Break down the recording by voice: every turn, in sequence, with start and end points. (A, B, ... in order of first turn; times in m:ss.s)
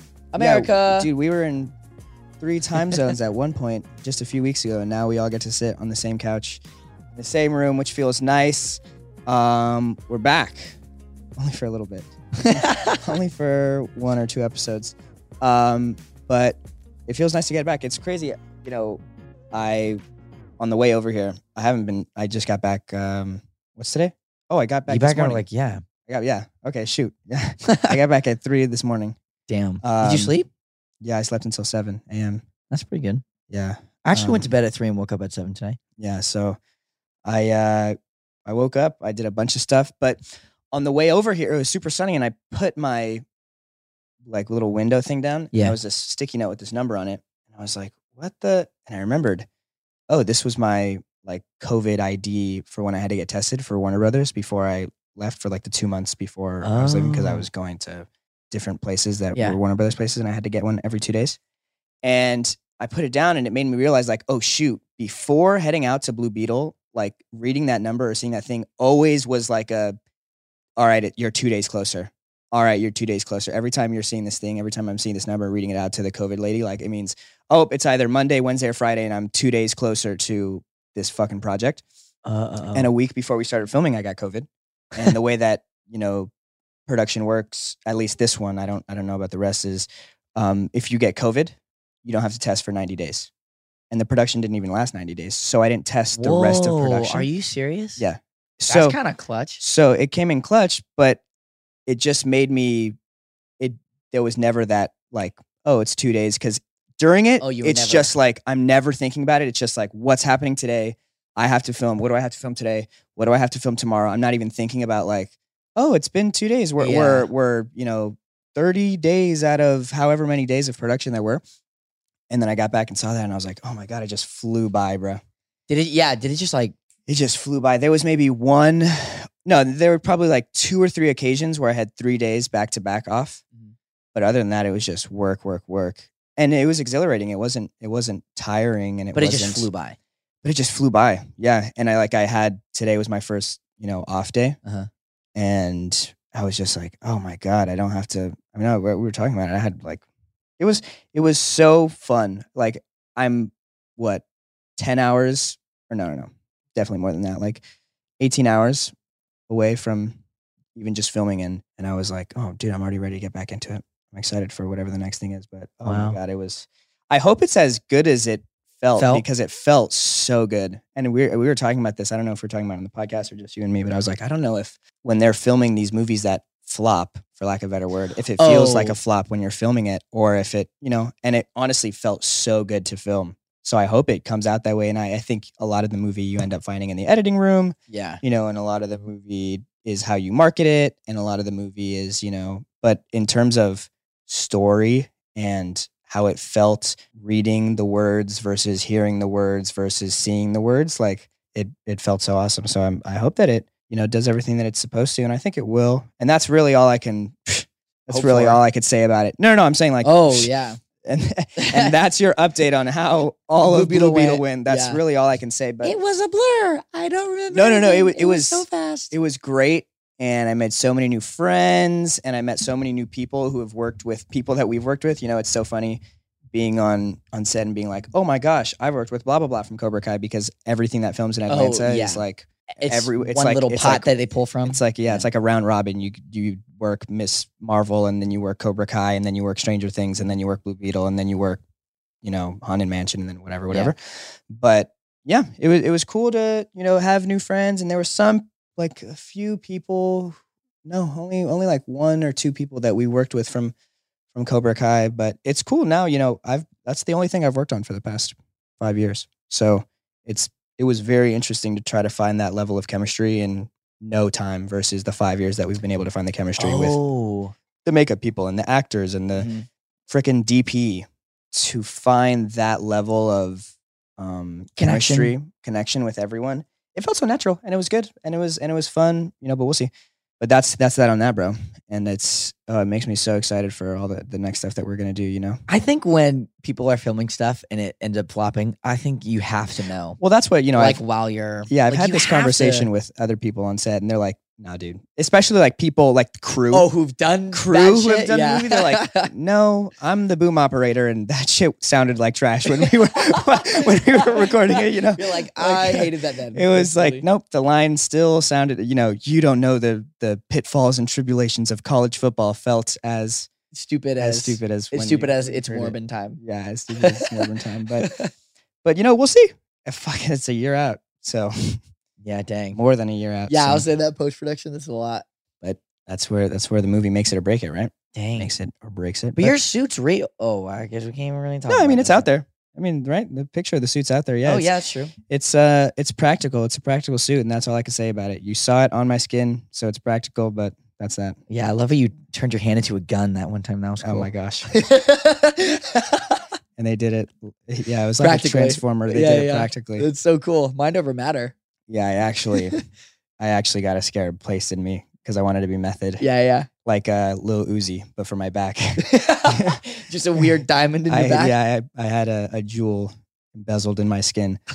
0:00.3-0:01.1 A
0:00.4-0:01.7 B
0:02.4-0:06.6 B
0:07.2-0:10.8 B
0:11.4-0:19.0 B
0:12.5-0:13.1 A
0:19.5-0:20.0 B
0:20.6-0:25.4 B
0:24.9-0:25.8 A
0:26.1-0:29.2 B
0:27.6-0:28.0 A
0:29.5-0:30.5 A
0:29.8-0:30.3 B
0:31.0-0:32.4 B
0:32.7-0:33.2 A
0:33.5-0:34.5 B
0:34.0-0:35.8 A
0:36.0-0:36.6 B
0:37.2-0:40.2 B
0:40.7-0:43.2 B
0:44.2-0:49.4 B
0:50.1-1:01.4 B
0:56.6-0:57.5 A
1:02.0-1:10.0 B
1:10.8-1:21.8 B
1:22.2-1:22.9 A
1:22.7-1:26.3 B
1:26.9-1:33.3 B
1:33.9-1:37.3 B
1:36.1-1:38.0 A
1:38.0-1:39.0 B
1:38.7-1:39.6 A
1:39.6-1:41.2 B
1:41.8-1:43.0 B
1:43.6-2:01.4 B
1:47.4-1:48.1 A
1:56.8-1:57.3 A
2:02.3-2:05.2 B
2:05.7-2:06.8 A
2:07.1-2:13.4 B
2:14.1-2:19.7 B
2:19.1-2:20.0 A
2:20.4-2:24.6 B
2:25.3-2:30.0 B
2:30.6-2:34.2 B
2:34.8-2:37.6 B
2:38.2-2:38.9 B
2:39.5-2:40.2 B
2:40.8-3:30.5 B
2:45.8-2:46.2 A
2:49.0-2:49.2 A
2:58.4-2:59.0 A
3:07.9-3:08.2 A
3:28.1-3:28.6 A
3:30.0-3:30.8 A
3:31.0-3:35.9 B
3:31.6-3:31.9 A
3:33.6-3:35.0 A
3:35.8-3:39.2 A
3:37.5-3:46.0 B
3:46.5-3:54.1 B
3:51.5-3:52.2 A
3:52.8-3:55.3 A
3:54.6-4:01.6 B
4:02.2-4:04.0 B
4:04.5-4:13.7 B
4:14.3-4:27.0 B
4:26.6-4:27.5 A
4:27.8-4:29.5 B
4:29.4-4:29.6 A
4:30.1-4:45.6 B
4:34.8-4:35.3 A
4:45.7-4:50.2 A
4:50.2-4:51.0 B
4:50.8-4:52.9 A
4:51.7-4:56.9 B
4:56.7-4:59.3 A
4:57.5-5:13.5 B
5:02.8-5:07.2 A
5:13.7-5:16.4 A
5:14.2-5:18.1 B
5:16.9-5:18.3 A
5:18.8-5:21.8 B
5:22.2-5:22.8 A
5:22.7-5:23.8 B
5:23.5-5:25.2 A
5:25.6-5:29.6 B
5:28.1-5:28.5 A
5:29.4-5:32.3 A
5:31.7-5:34.7 B
5:34.4-5:35.1 A
5:35.3-5:41.4 B
5:41.5-5:46.4 A
5:44.0-5:44.7 B
5:46.8-5:50.1 B
5:48.2-5:51.5 A
5:51.9-5:52.8 B
5:53.4-5:56.2 B
5:56.2-5:56.7 A
5:56.8-5:59.8 B
5:59.0-6:01.5 A
6:01.1-6:04.6 B